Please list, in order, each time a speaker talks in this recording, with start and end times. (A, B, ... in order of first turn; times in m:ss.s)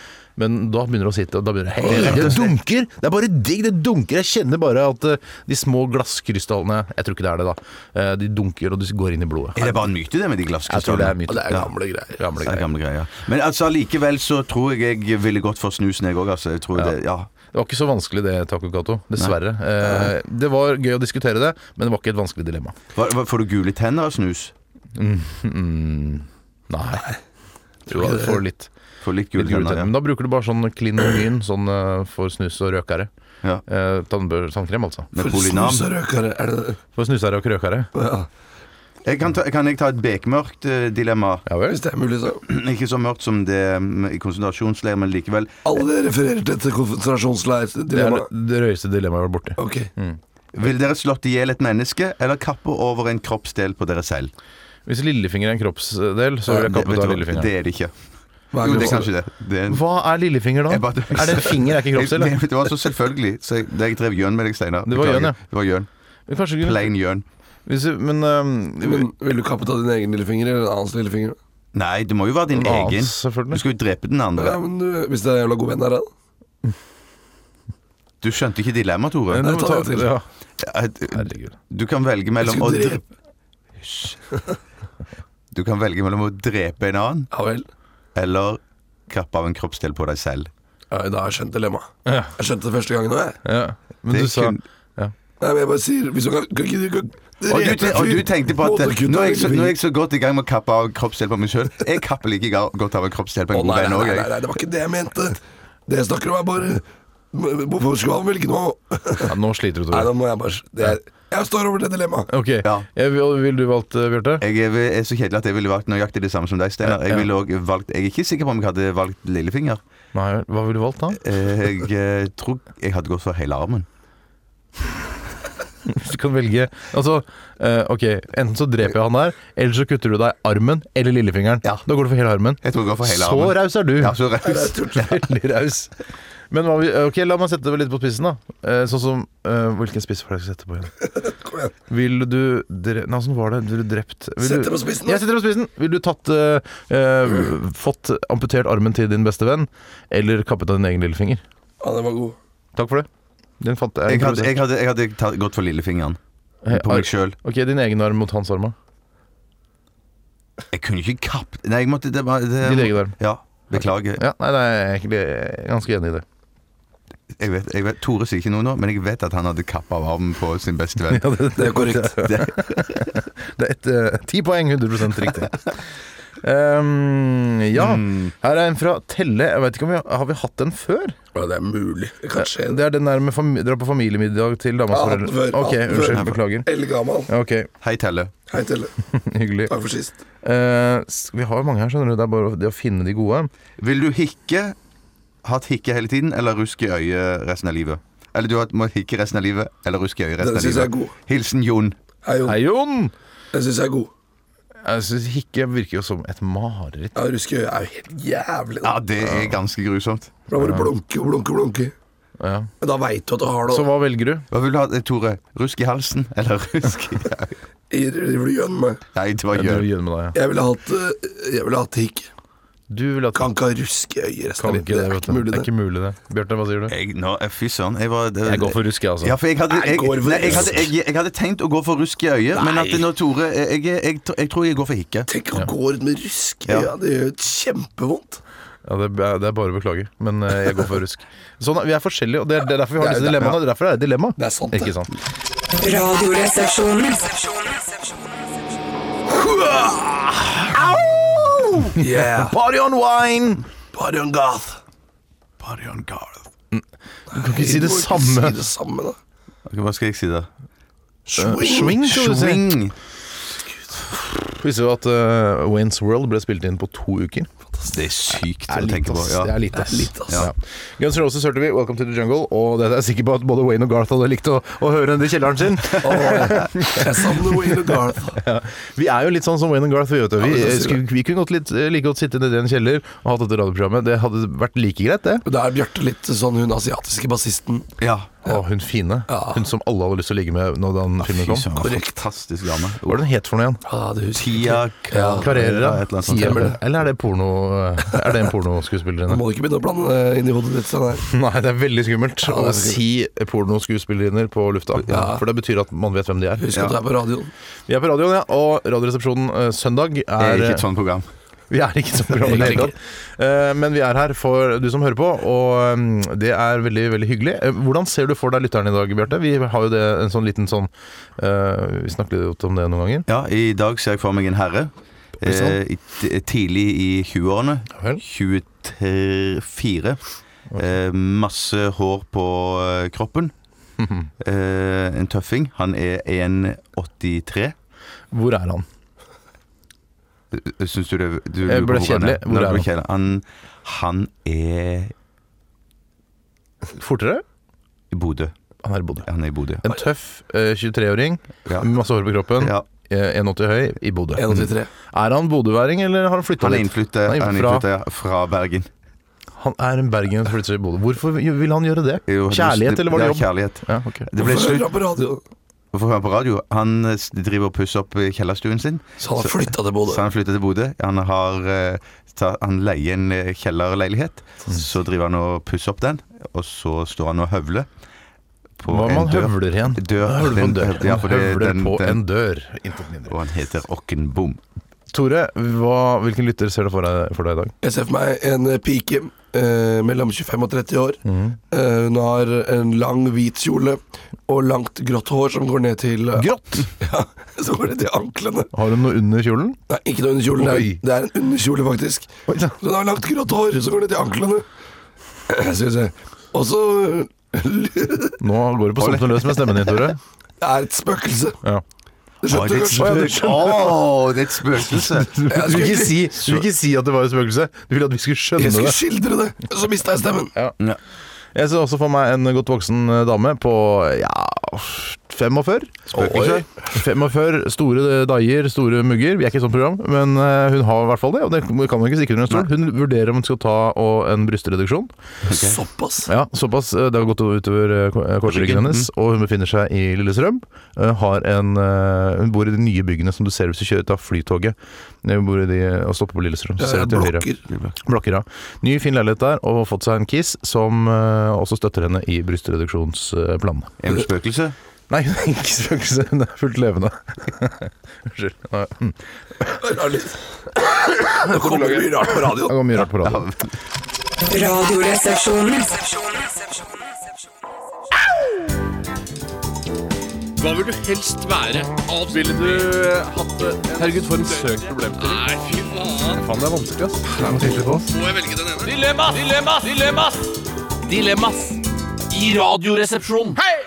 0:00.4-0:09.8 A
0:01.8-0:02.4 B
0:01.9-0:02.6 C
0:09.6-0:11.7 C
0:10.6-0:11.6 A
0:11.3-0:12.2 B
0:12.2-0:12.6 A
0:12.4-0:17.3 C
0:17.5-0:22.8 A
0:22.9-0:24.5 C
0:24.9-0:27.1 A
0:27.9-0:28.4 B
0:27.9-0:28.7 A
0:29.0-0:29.9 C
0:29.4-0:33.1 A
0:33.7-0:35.1 A
0:35.1-0:35.9 C
0:35.2-0:36.8 B
0:37.0-0:37.9 A
0:37.9-0:38.3 B
0:39.0-0:41.4 C
0:41.4-0:41.8 A
0:41.7-0:42.4 B
0:42.4-0:45.7 C
0:45.6-0:48.3 B
0:47.9-0:50.2 A
0:49.6-0:49.9 B
0:50.5-0:54.3 C
0:54.9-0:57.5 A
0:56.5-0:57.9 C
0:58.5-0:59.1 B
0:58.6-0:59.8 C
0:58.7-0:59.1 A
0:59.7-1:02.4 A
1:00.7-1:05.9 C
1:04.9-1:05.4 A
1:06.3-1:06.9 A
1:06.6-1:07.2 C
1:07.6-1:09.1 A
1:08.8-1:11.4 B
1:11.8-1:14.6 C
1:12.5-1:13.6 A
1:14.4-1:16.1 B
1:18.2-1:19.5 C
1:19.3-1:20.2 A
1:19.4-1:20.1 B
1:20.6-1:23.0 C
1:21.1-1:21.6 A
1:22.4-1:23.0 B
1:23.8-1:24.2 C
1:25.5-1:27.3 C
1:27.3-1:27.6 B
1:28.1-1:30.5 C
1:30.9-1:33.4 B
1:32.1-1:32.3 A
1:33.4-1:35.1 A
1:34.1-1:34.6 C
1:35.4-1:39.8 B
1:37.5-1:44.3 C
1:43.5-1:49.4 B
1:49.3-1:50.1 A
1:49.9-1:52.3 B
1:52.3-1:54.4 A
1:54.4-1:59.8 C
1:56.8-1:57.3 A
2:00.1-2:01.2 A
2:01.2-2:03.9 C
2:05.9-2:14.2 A
2:12.6-2:15.0 C
2:14.4-2:15.1 B
2:14.9-2:15.9 A
2:16.5-2:21.0 A
2:21.2-2:21.7 B
2:21.9-2:31.4 A
2:24.4-2:25.2 B
2:31.8-2:32.4 B
2:32.8-2:33.1 A
2:33.6-2:34.6 A
2:34.1-2:37.4 C
2:36.6-2:38.8 A
2:40.7-2:44.2 C
2:42.6-2:43.2 A
2:44.1-2:46.2 A
2:47.3-2:51.3 C
2:51.1-2:55.6 A
2:51.6-2:52.1 B
2:52.2-2:53.1 C
2:56.4-3:01.2 A
2:57.8-2:58.3 C
3:01.3-3:02.8 B
3:02.4-3:06.7 A
3:04.9-3:07.3 B
3:07.3-3:07.7 A
3:07.8-3:08.3 C
3:08.5-3:08.9 B
3:09.1-3:09.7 A
3:09.7-3:10.2 B
3:10.4-3:13.5 A
3:13.8-3:14.8 C
3:15.4-3:22.0 C
3:20.4-3:21.1 B
3:22.2-3:22.6 B
3:22.4-3:23.1 A
3:23.5-3:24.1 B
3:24.8-3:27.1 A
3:27.1-3:29.0 B
3:28.8-3:30.3 C
3:29.2-3:29.6 A
3:30.5-3:31.9 B
3:30.6-3:30.9 A
3:32.4-3:32.7 A
3:32.8-3:33.9 B
3:33.7-3:34.5 A
3:34.5-3:37.6 C
3:37.9-3:39.0 B
3:39.1-3:39.9 C
3:39.5-3:40.4 A
3:40.3-3:42.3 B
3:42.9-3:43.5 A
3:43.4-3:45.7 B
3:44.6-3:46.9 A
3:46.9-3:55.3 C
3:48.4-3:49.4 A
3:49.7-3:50.8 B
3:52.6-3:53.0 B
3:55.3-3:58.4 B
3:58.9-4:05.1 A
4:03.0-4:03.5 B
4:04.4-4:04.9 B
4:05.7-4:08.4 D
4:09.3-4:10.4 B
4:10.4-4:13.7 A
4:11.9-4:12.6 B
4:13.9-4:14.8 B
4:15.6-4:16.4 C
4:16.7-4:18.6 A
4:17.3-4:19.2 B
4:19.6-4:20.5 C
4:21.3-4:22.0 B
4:21.4-4:22.8 A
4:22.0-4:22.9 C
4:24.2-4:27.5 A
4:27.9-4:29.6 C
4:28.7-4:45.4 A
4:29.8-4:30.4 B
4:35.9-4:36.7 C
4:36.0-4:38.4 B
4:40.4-4:41.0 B
4:45.4-4:47.9 B
4:48.0-4:48.3 C
4:48.4-4:51.7 A
4:49.3-4:49.7 B
4:51.2-4:53.2 C
4:51.8-4:52.2 B
4:53.1-4:53.8 A
4:53.8-4:55.5 B
4:54.4-4:56.8 C
4:55.4-4:59.4 A
4:56.3-4:56.8 B
4:59.3-5:01.3 B
5:01.2-5:06.6 A
5:02.4-5:03.0 B
5:05.0-5:05.4 B
5:06.6-5:07.5 B
5:07.9-5:10.8 A
5:10.4-5:11.3 C
5:11.7-5:23.3 A
5:12.4-5:12.9 B
5:12.5-5:12.8 C
5:23.3-5:30.2 C
5:25.4-5:25.8 A
5:27.9-5:28.2 A
5:30.8-5:33.5 C
5:34.0-5:34.3 A
5:34.4-5:37.8 C
5:38.3-5:38.9 A
5:40.5-5:45.1 C
5:41.6-5:42.9 A
5:46.9-5:47.4 A
5:48.1-5:48.5 C
5:48.8-5:49.3 A
5:49.3-5:49.8 C
5:49.8-5:57.9 A
5:52.6-5:52.8 C
5:54.4-5:54.9 B
5:56.6-5:58.9 C
5:59.6-6:04.3 A
6:02.3-6:04.9 C
6:04.4-6:05.4 B
6:05.9-6:17.9 C
6:09.2-6:10.2 B
6:18.8-6:22.2 C
6:18.9-6:23.4 A
6:23.3-6:24.6 C
6:25.1-6:27.7 A
6:27.8-6:38.7 B
6:31.3-6:31.6 A
6:36.4-6:36.9 A
6:38.7-6:39.8 A
6:39.9-6:42.3 B
6:40.6-6:41.0 A
6:42.5-6:42.8 A
6:42.8-6:44.6 B
6:45.5-6:48.4 B
6:48.4-6:50.2 A
6:49.0-6:49.9 C
6:50.6-6:51.6 B
6:52.4-6:53.4 B
6:52.4-6:56.6 C
6:53.0-6:54.1 A
6:54.9-6:59.0 A
6:55.5-6:56.2 B
6:58.6-7:00.5 B
7:01.6-7:15.1 A
7:06.1-7:06.7 C
7:15.4-7:15.8 C
7:15.5-7:16.3 B
7:16.3-7:27.5 A
7:18.5-7:19.1 C
7:26.8-7:27.6 B
7:27.7-7:28.0 C
7:28.0-7:33.9 A
7:34.0-7:34.8 C
7:35.1-7:39.8 A
7:39.7-7:42.8 B
7:41.1-7:43.4 A
7:43.2-7:43.8 C
7:44.4-7:47.3 D
7:50.6-7:56.4 E
7:52.3-7:53.3 F
7:53.9-7:55.5 F
7:56.4-7:58.1 F
7:58.1-8:00.5 E
8:01.0-8:03.6 E